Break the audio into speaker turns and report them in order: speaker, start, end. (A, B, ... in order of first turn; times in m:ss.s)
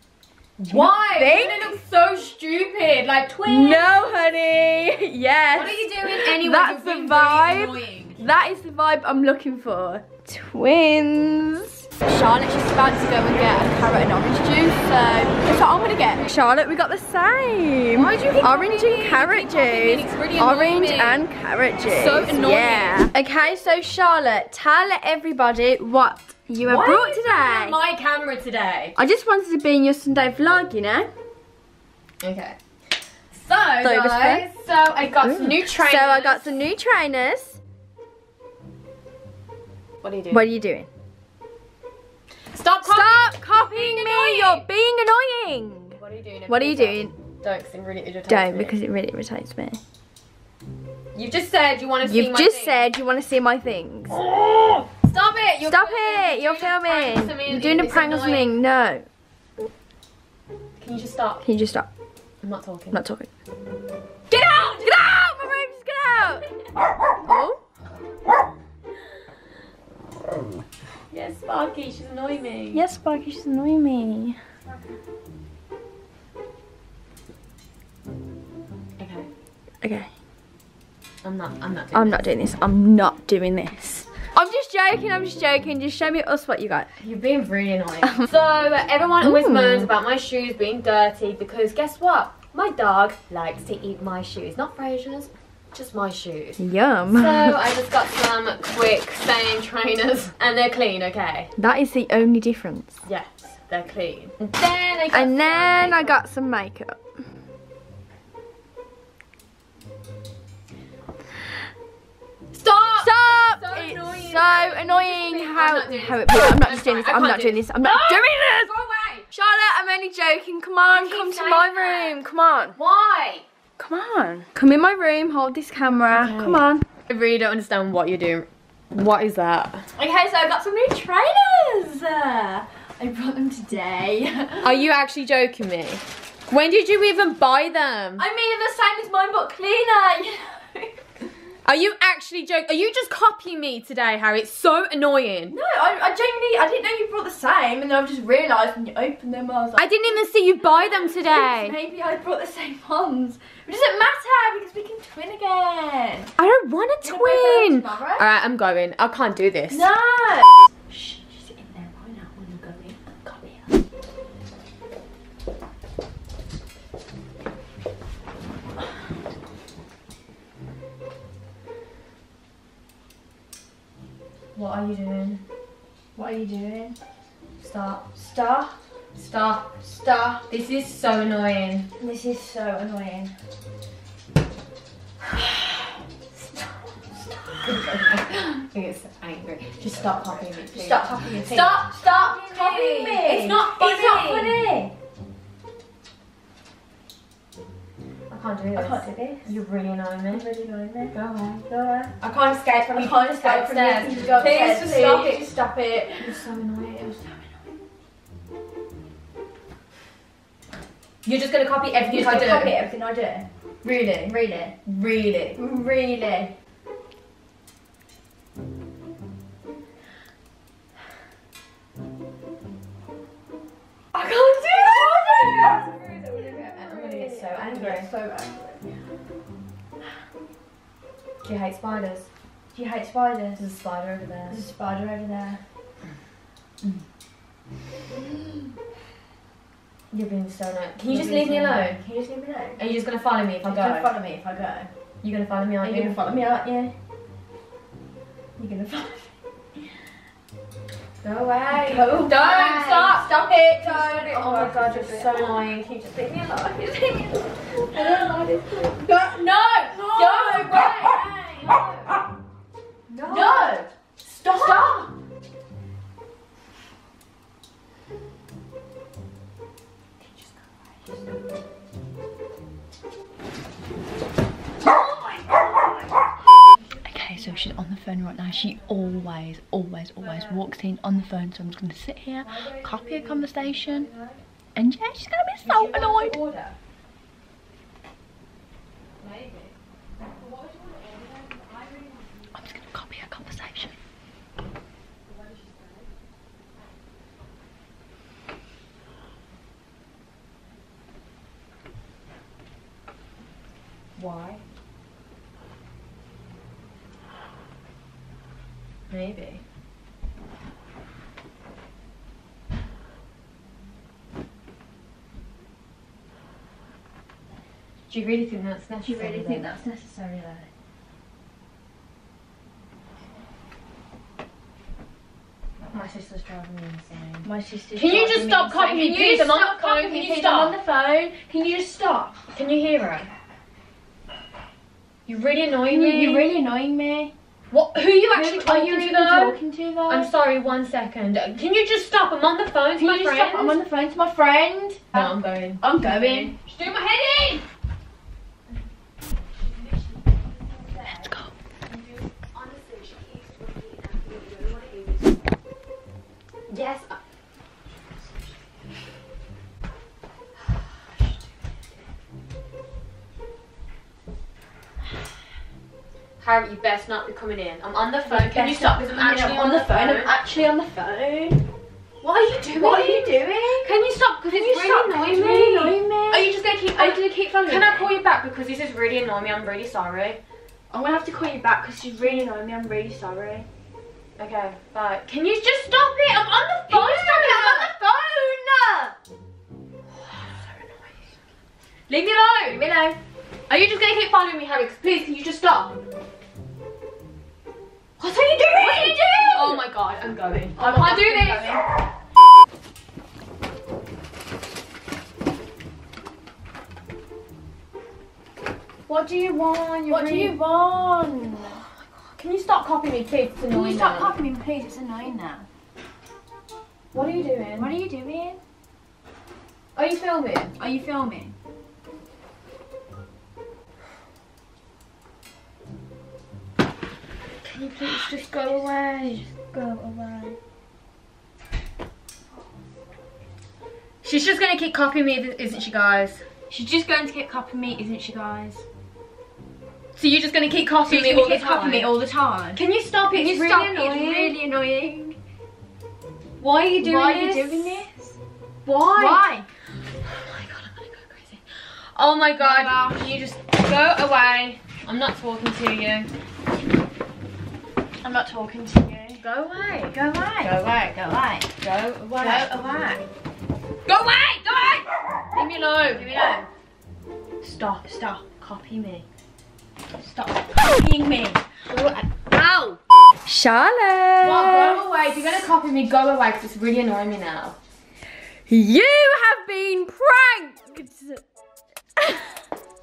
0:00.6-0:03.9 A
0:00.7-0:01.8 B
0:03.5-0:27.8 B
0:05.5-0:08.3 A
0:12.1-0:13.9 A
0:15.8-0:16.3 A
0:17.9-0:21.3 A
0:21.8-0:23.1 A
0:26.6-0:29.0 A
0:29.0-0:31.1 B
0:32.2-0:32.6 A
0:33.3-0:36.6 A
0:33.8-0:34.5 B
0:35.2-0:37.6 B
0:40.0-0:40.4 A
0:40.3-0:40.9 B
0:42.5-0:44.6 A
0:42.8-0:47.2 B
0:46.0-0:48.8 A
0:48.3-0:49.8 B
0:51.1-0:52.9 A
0:52.0-0:54.2 B
0:54.2-0:58.5 A
0:55.6-0:59.1 B
1:00.8-1:01.4 A
1:01.4-1:01.9 B
1:02.4-1:03.0 A
1:02.9-1:03.3 B
1:04.3-1:06.5 B
1:07.2-1:07.6 B
1:11.1-1:12.8 A
1:12.7-1:14.4 B
1:19.0-1:19.3 A
1:19.8-1:20.1 B
1:21.2-1:22.2 A
1:21.9-1:26.9 B
1:27.0-1:41.5 A
1:29.2-1:29.9 B
1:36.6-1:37.6 B
1:41.6-1:43.0 B
1:43.0-1:46.2 A
1:45.1-1:47.0 B
1:52.5-1:59.3 A
1:53.0-1:58.7 B
1:59.3-2:02.8 B
2:00.9-2:02.2 A
2:02.8-2:03.4 A
2:03.8-2:06.9 B
2:06.1-2:09.9 A
2:10.0-2:14.8 B
2:14.6-2:18.2 A
2:18.2-2:21.0 B
2:21.6-2:25.6 A
2:25.5-2:29.9 B
2:29.8-2:31.8 A
2:30.6-2:36.3 B
2:36.4-2:39.9 A
2:37.0-2:38.3 B
2:39.7-2:43.7 B
2:54.6-2:55.4 A
2:56.2-2:57.0 B
2:57.6-2:58.0 A
2:58.1-2:58.8 B
2:59.2-2:59.7 A
2:59.8-3:00.5 B
3:00.5-3:01.9 A
3:02.0-3:03.3 B
3:06.4-3:06.8 A
3:07.5-3:14.6 A
3:09.8-3:14.9 B
3:18.3-3:20.5 A
3:18.8-3:19.5 B
3:20.3-3:21.2 B
3:21.1-3:21.6 A
3:21.7-3:22.1 B
3:22.2-3:25.6 A
3:22.9-3:26.4 B
3:26.2-3:27.4 A
3:31.2-3:32.8 A
3:32.1-3:33.5 B
3:33.8-3:34.4 A
3:34.2-3:34.8 B
3:34.9-3:35.6 A
3:35.6-3:36.5 B
3:44.1-3:48.9 B
3:44.8-3:48.1 A
3:51.4-3:52.3 A
3:52.7-3:53.7 B
3:53.6-3:54.6 A
3:54.5-3:55.6 B
4:00.1-4:02.0 A
4:01.1-4:02.8 B
4:02.8-4:04.1 A
4:03.7-4:04.9 B
4:05.2-4:06.2 A
4:05.8-4:06.9 B
4:08.6-4:09.3 B
4:11.2-4:16.9 A
4:11.7-4:15.6 B
4:16.4-4:19.2 B
4:17.9-4:22.2 A
4:19.9-4:21.8 B
4:23.1-4:23.9 B
4:23.2-4:25.1 A
4:24.5-4:25.1 B
4:30.2-4:31.3 A
4:34.9-4:35.5 A
4:36.8-4:37.8 A
4:37.1-4:44.1 B
4:38.5-4:39.1 A
4:40.2-4:40.6 A
4:42.4-4:44.4 A
4:44.8-4:46.4 B
4:45.6-4:46.8 A
4:49.2-4:52.8 A
4:52.5-4:53.9 B
4:55.2-4:56.1 A
5:04.2-5:04.6 A
5:09.1-5:09.6 A
5:18.1-5:19.7 A
5:19.0-5:20.7 B
5:25.9-5:30.8 A
5:27.4-5:32.4 B
5:32.5-5:33.3 A
5:35.3-5:36.5 A
5:35.9-5:37.3 B
5:37.7-5:43.8 A
5:38.3-5:40.3 B
5:43.0-5:46.6 B
5:45.1-5:47.6 A
5:49.5-5:51.4 A
5:51.2-5:51.5 B
5:51.9-5:55.5 A
5:56.7-5:57.2 A
6:00.6-6:01.5 A
6:06.4-6:10.3 A
6:08.2-6:11.6 B
6:12.2-6:20.4 A
6:12.6-6:13.9 B
6:14.5-6:18.1 B
6:20.9-6:23.7 B
6:24.4-6:27.9 A
6:26.9-6:29.2 B
6:30.1-6:31.2 A
6:32.1-6:32.8 A
6:32.6-6:33.2 B
6:33.7-6:36.0 A
6:38.2-6:41.8 A
6:38.5-6:39.8 B
6:40.7-6:41.8 B
6:49.1-6:50.6 A
6:50.1-6:51.8 B
6:51.7-6:54.4 A
6:53.7-6:55.7 B
6:57.1-6:57.9 A
6:57.8-6:58.6 B
7:00.0-7:00.7 A
7:00.8-7:01.6 B
7:07.6-7:09.5 A
7:09.6-7:10.6 B
7:14.2-7:16.4 A
7:16.7-7:18.8 B
7:20.2-7:22.1 A
7:21.1-7:25.4 B
7:22.8-7:24.6 A
7:26.6-7:28.0 A
7:27.0-7:28.4 B
7:28.8-7:29.5 A
7:29.2-7:29.7 B
7:30.1-7:36.3 A
7:32.6-7:33.3 B
7:38.2-7:39.4 B
7:39.4-7:40.9 A
7:40.1-7:41.7 B
7:41.8-7:42.7 A
7:42.4-7:43.2 B
7:44.1-7:46.3 A
7:46.1-7:46.7 B
7:47.6-7:49.3 A
7:48.0-7:48.4 B
7:50.2-7:51.6 B
7:51.9-7:53.0 A
7:53.5-7:55.0 B
7:54.4-7:57.8 A
7:58.7-8:01.4 B